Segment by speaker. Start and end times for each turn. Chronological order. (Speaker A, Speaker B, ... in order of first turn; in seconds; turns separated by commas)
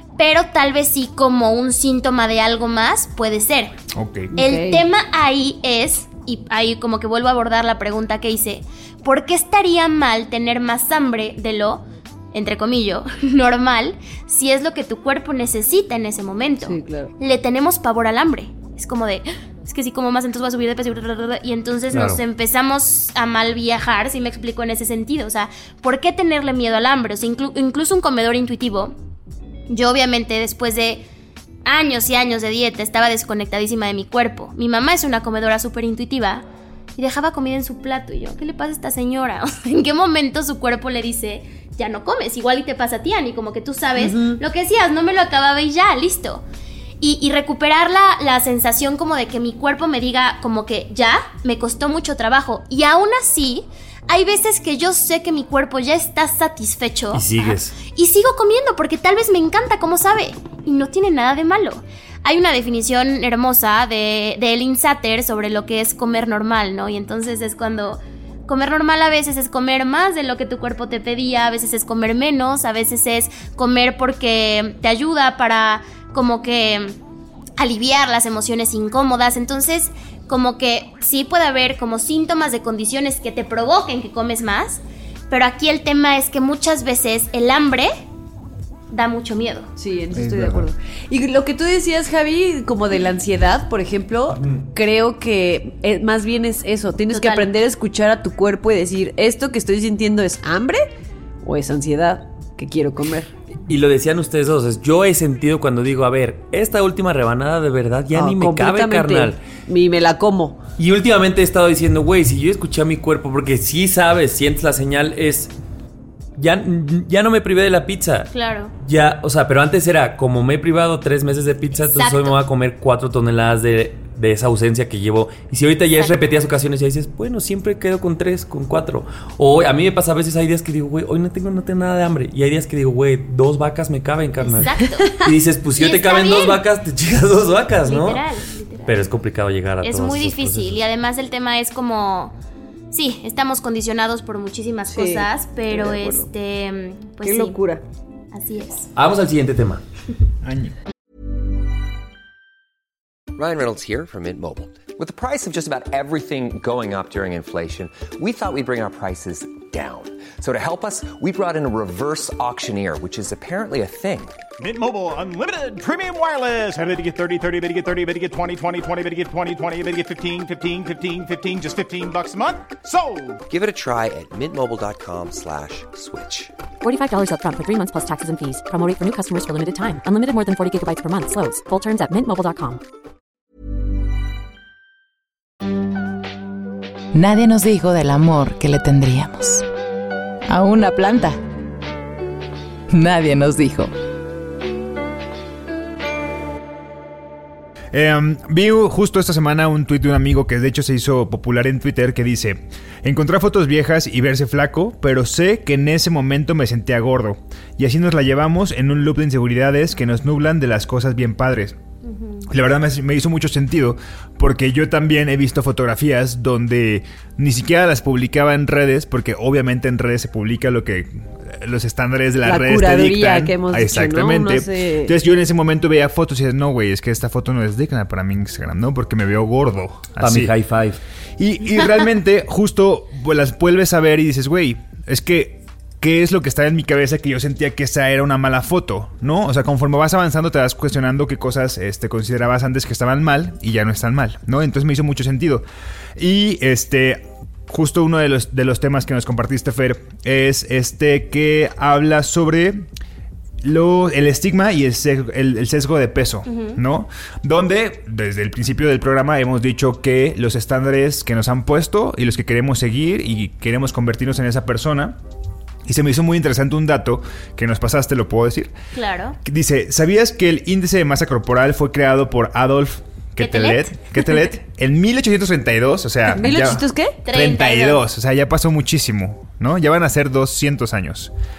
Speaker A: 0.2-3.7, Speaker B: 3.9-4.3, Speaker C: 4.3-4.8, Speaker A: 4.4-28.9, Speaker C: 16.6-17.1, Speaker D: 21.9-22.2, Speaker A: 29.7-31.0, Speaker A: 31.6-36.4, Speaker A: 37.0-46.4, Speaker C: 44.0-44.4, Speaker A: 47.0-76.9, Speaker D: 57.1-57.8, Speaker A: 77.6-87.9, Speaker A: 88.9-89.7, Speaker C: 89.8-100.8, Speaker B: 90.1-90.7, Speaker A: 97.1-97.5, Speaker C: 101.4-103.3, Speaker D: 103.7-109.4, Speaker C: 108.1-110.6, Speaker D: 110.8-115.5, Speaker D: 116.4-138.2, Speaker A: 118.3-118.7, Speaker A: 121.7-122.3, Speaker A: 134.4-136.6, Speaker A: 137.8-139.1, Speaker D: 138.8-140.8, Speaker A: 139.8-142.3, Speaker A: 142.9-147.6, Speaker C: 144.9-146.3, Speaker C: 147.2-147.8, Speaker A: 148.3-148.9, Speaker D: 148.9-149.8, Speaker B: 150.4-150.7, Speaker E: 153.3-164.4, Speaker F: 164.6-173.4, Speaker E: 173.5-176.5, Speaker G: 176.8-182.8, Speaker H: 187.1-189.6, Speaker H: 190.5-191.4, Speaker H: 192.9-193.9, Speaker B: 197.9-211.8, Speaker A: 212.1-212.4, Speaker B: 212.5-230.5, Speaker C: 222.4-225.1, Speaker D: 230.2-231.0, Speaker B: 231.4-245.6, Speaker B: 246.2-252.8, Speaker B: 253.6-265.2, Speaker A: 256.5-256.8, Speaker B: 265.9-268.7, Speaker A: 268.9-269.4, Speaker B: 269.4-281.3, Speaker A: 273.4-274.0, Speaker C: 276.3-277.1, Speaker A: 277.2-278.0